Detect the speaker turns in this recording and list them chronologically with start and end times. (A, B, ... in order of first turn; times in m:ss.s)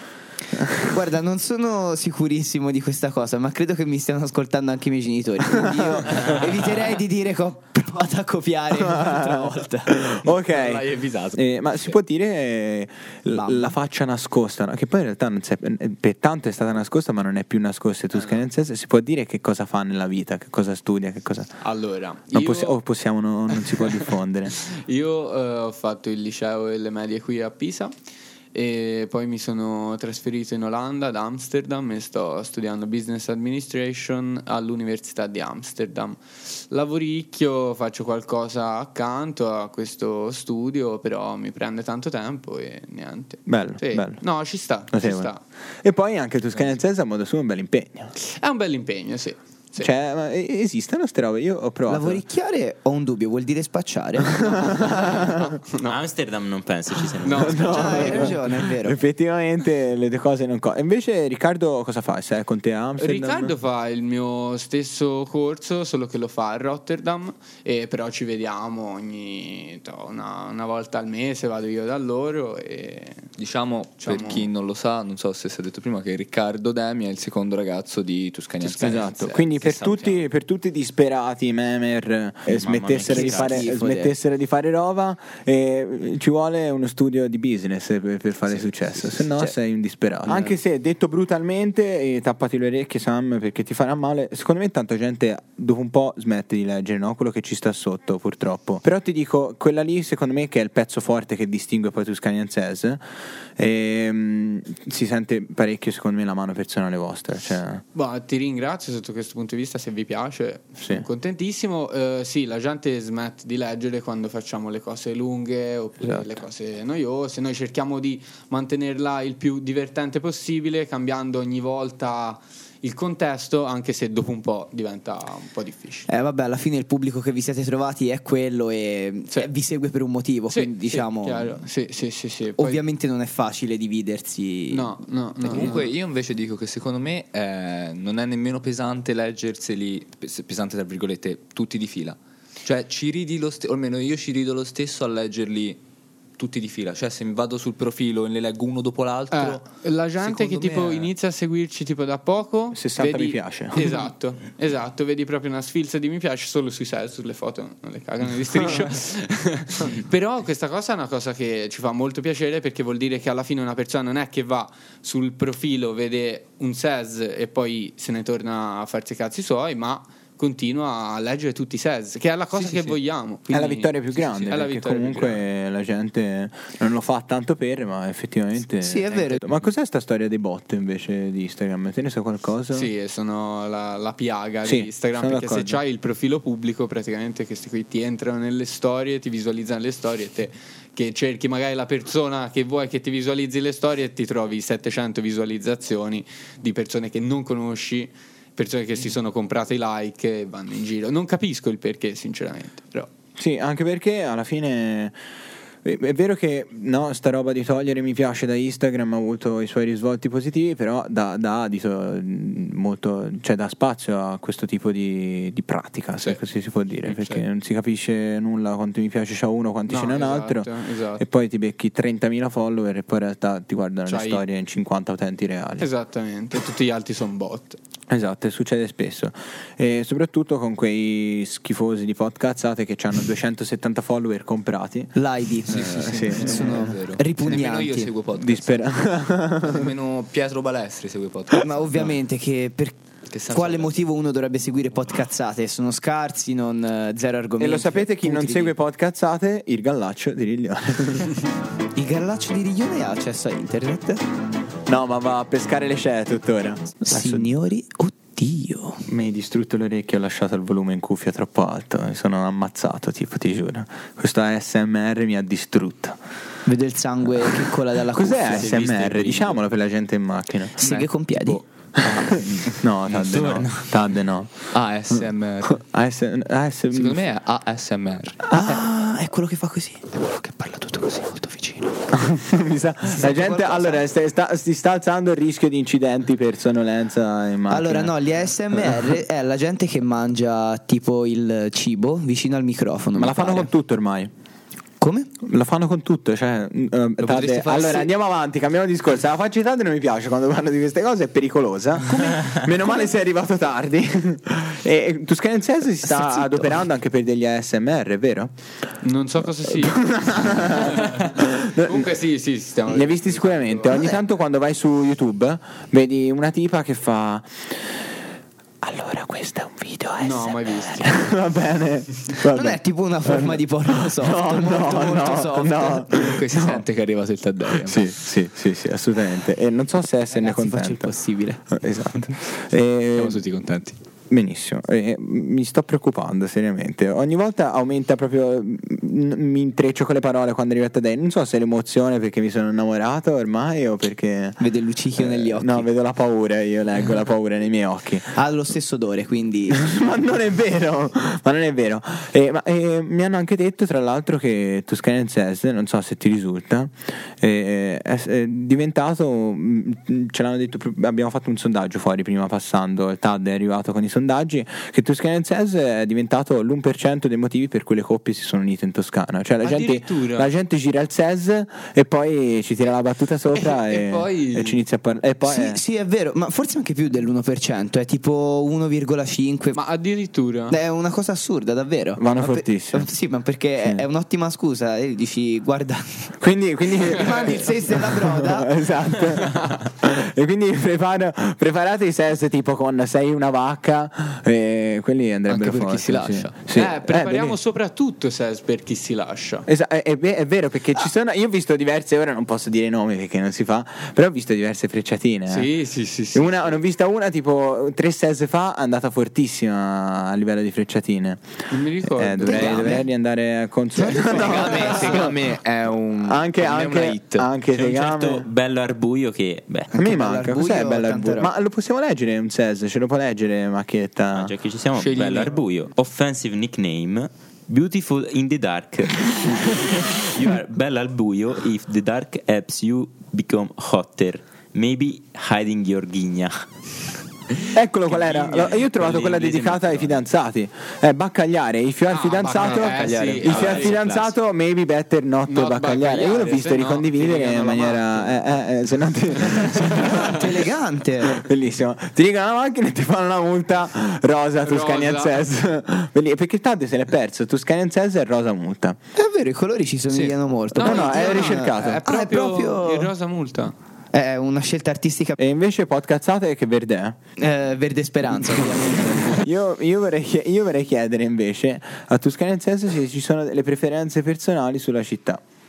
0:00.5-0:01.0 A
0:00.8-0:10.2 B
0:05.6-0:06.4 A
0:08.8-0:21.5 A
0:10.2-0:11.9 C
0:13.4-0:13.7 B
0:21.6-0:22.8 D
0:22.3-0:24.6 A
0:23.6-0:27.9 D
0:28.5-0:45.4 D
0:43.5-0:44.2 A
0:44.9-0:45.3 A
0:45.8-0:48.1 A
0:48.2-0:49.9 D
0:49.8-0:52.2 A
0:51.9-0:55.0 B
0:54.4-0:55.4 A
0:54.6-0:56.0 D
0:55.8-0:58.1 E
0:57.2-0:58.4 D
0:57.4-1:03.6 A
0:57.6-0:59.0 B
1:03.0-1:13.3 D
1:13.4-1:20.2 C
1:14.0-1:14.5 D
1:18.6-1:19.1 D
1:18.8-1:43.0 A
1:22.5-1:23.7 E
1:23.0-1:24.2 B
1:30.3-1:30.5 B
1:43.6-1:47.8 A
1:47.9-2:06.1 D
1:50.8-1:51.1 A
1:56.0-1:56.4 A
2:06.1-2:11.6 B
2:10.5-2:12.8 D
2:12.6-2:15.8 B
2:14.7-2:15.9 D
2:15.4-2:25.8 C
2:26.4-2:31.1 C
2:29.3-2:55.4 D
2:32.7-2:33.9 A
2:53.5-3:02.9 A
2:58.8-2:59.4 B
3:02.7-3:23.1 D
3:04.6-3:05.8 A
3:23.4-3:25.2 A
3:25.8-3:45.9 A
3:37.0-3:37.4 D
3:39.9-3:41.2 D
3:44.1-3:44.4 D
3:45.8-3:47.8 D
3:48.1-3:55.2 A
3:55.2-3:58.1 B
3:55.7-3:58.9 C
3:55.7-3:56.9 A
3:58.4-3:59.9 A
3:59.6-4:02.1 C
4:01.6-4:03.0 B
4:03.3-4:04.0 C
4:03.5-4:08.8 B
4:07.6-4:11.4 A
4:11.9-4:14.3 B
4:14.9-4:17.5 A
4:17.0-4:19.1 B
4:19.1-4:26.2 A
4:26.7-4:29.5 B
4:28.1-4:30.8 A
4:30.8-4:32.4 B
4:30.8-4:31.6 C
4:32.0-4:34.7 A
4:32.3-4:32.6 C
4:33.1-4:33.8 E
4:34.7-4:35.8 C
4:35.7-4:37.2 A
4:36.9-4:38.8 C
4:38.5-4:40.2 B
4:40.1-4:41.9 C
4:42.1-4:48.2 A
4:43.1-4:44.0 B
4:47.7-4:53.7 B
4:53.2-4:54.3 A
4:55.0-4:55.3 B
4:55.4-5:08.5 A
4:57.2-4:58.1 C
4:57.5-4:58.1 B
5:06.0-5:06.9 B
5:09.0-5:14.1 D
5:09.6-5:12.1 A
5:12.9-5:18.0 A
5:13.9-5:14.2 B
5:18.8-5:26.8 A
5:20.2-5:21.2 D
5:22.4-5:26.1 B
5:26.1-5:28.1 C
5:27.8-5:31.1 A
5:30.3-5:31.7 B
5:31.7-5:33.4 A
5:33.2-5:34.0 C
5:34.3-5:44.6 A
5:44.6-5:45.9 B
5:45.2-5:48.4 A
5:48.3-5:50.0 B
5:49.7-6:15.8 A
6:09.6-6:10.5 D
6:13.5-6:14.8 D
6:15.4-6:19.8 B
6:19.7-6:20.8 D
6:20.7-6:26.3 B
6:22.2-6:23.1 A
6:26.4-6:37.6 A
6:27.1-6:28.8 B
6:27.3-6:27.6 D
6:35.5-6:36.6 C
6:36.7-6:39.7 D
6:39.7-6:45.7 A
6:45.5-6:46.8 D
6:46.3-6:55.4 A
6:51.7-6:53.0 D
6:52.4-6:53.1 B
6:54.0-6:55.2 B
6:54.1-6:57.5 C
6:56.2-6:58.5 A
6:57.7-6:59.9 E
6:59.9-7:04.5 A
7:00.0-7:01.5 B
7:04.4-7:16.7 E
7:05.0-7:05.5 C
7:17.7-7:30.5 A
7:18.1-7:20.2 E
7:22.1-7:24.0 D
7:22.5-7:24.4 E
7:23.0-7:23.4 C
7:25.5-7:28.4 D
7:29.5-7:29.8 D
7:29.7-7:31.4 B
7:31.2-7:39.0 A
7:34.6-7:35.4 D
7:39.2-7:43.1 B
7:40.1-7:40.4 C
7:40.8-7:43.8 D
7:40.8-7:42.0 A
7:44.1-7:45.4 B
7:45.4-7:47.2 A
7:47.4-7:49.5 B
7:49.3-7:55.4 A